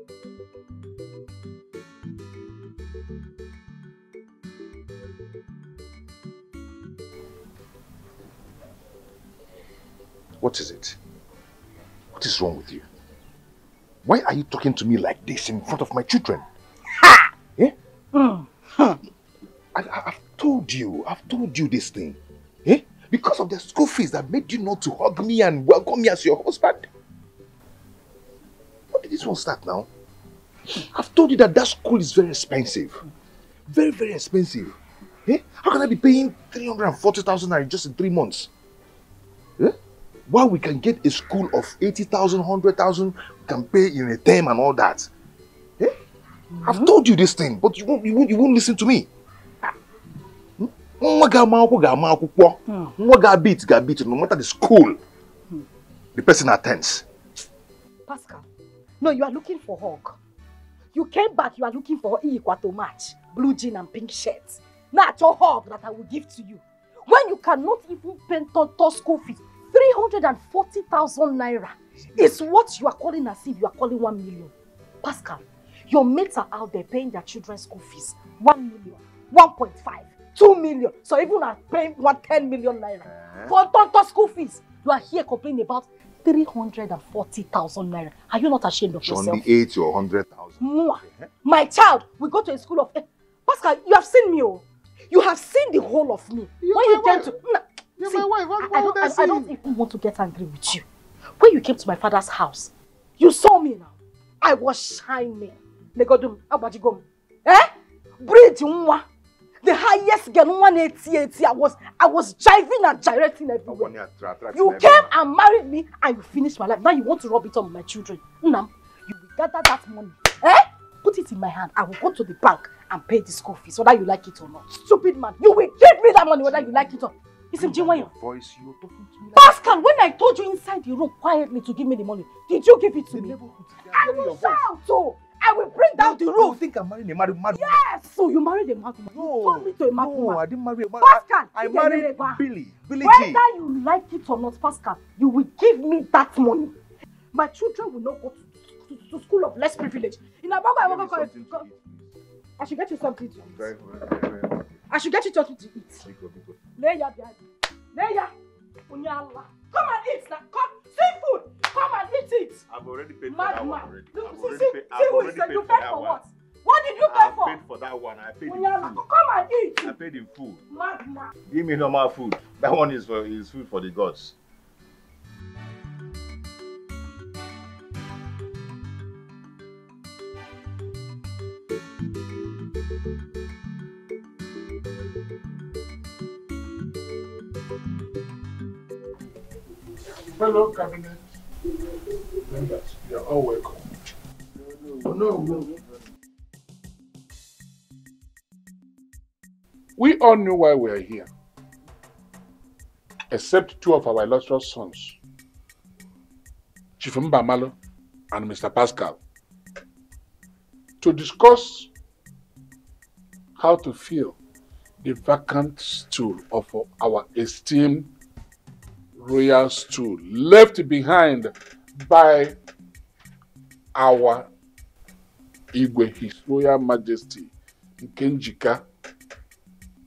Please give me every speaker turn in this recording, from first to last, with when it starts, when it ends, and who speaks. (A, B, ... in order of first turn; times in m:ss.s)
0:10.4-0:11.0 A
0:12.1-0:12.8 A
0:14.0-0:16.4 A
0:18.1-0:18.9 B
0:19.7-0:26.9 A
0:28.9-0:29.9 A
0:30.7-0:33.0 A
0:33.7-0:38.5 A
0:40.3-0:45.1 A
0:46.6-0:49.1 A
0:50.6-0:55.0 A
0:56.1-0:57.0 A
0:58.1-0:58.4 B
0:59.0-1:00.2 B
1:00.9-1:29.4 B
1:23.1-1:23.5 A
1:29.0-1:31.3 A
1:30.6-1:40.8 B
1:36.6-1:37.3 A
1:38.0-1:39.5 A
1:41.4-1:49.0 B
1:49.6-1:53.9 B
1:53.7-1:55.1 A
1:54.5-2:08.1 B
2:06.4-2:06.9 A
2:07.5-2:09.6 A
2:09.3-2:13.4 B
2:13.1-2:14.6 A
2:13.9-2:16.6 B
2:16.0-2:17.8 A
2:17.5-2:20.4 B
2:19.1-2:23.4 A
2:21.0-2:22.4 B
2:23.0-2:26.7 B
2:27.3-2:31.6 B
2:30.8-2:32.1 A
2:32.6-2:33.7 B
2:33.2-2:34.8 A
2:34.9-2:36.0 B
2:36.0-2:36.6 A
2:36.8-2:37.4 B
2:37.9-2:38.3 B
2:38.9-2:42.6 B
2:42.7-2:46.2 A
2:43.3-2:47.6 B
2:47.1-2:49.0 A
2:48.5-2:49.9 B
2:49.8-2:50.7 A
2:50.7-2:51.3 B
2:51.5-2:54.3 A
3:10.3-3:11.2 C
3:12.4-3:13.8 C
3:20.0-3:21.3 C
3:23.3-3:25.2 C
3:27.0-3:27.7 C
3:28.3-3:29.2 C
3:31.0-3:31.9 C
3:33.6-3:34.4 C
3:35.0-3:38.1 C
3:39.2-3:42.5 C
3:43.9-3:44.5 C
3:45.7-3:47.5 C
3:48.0-3:48.8 C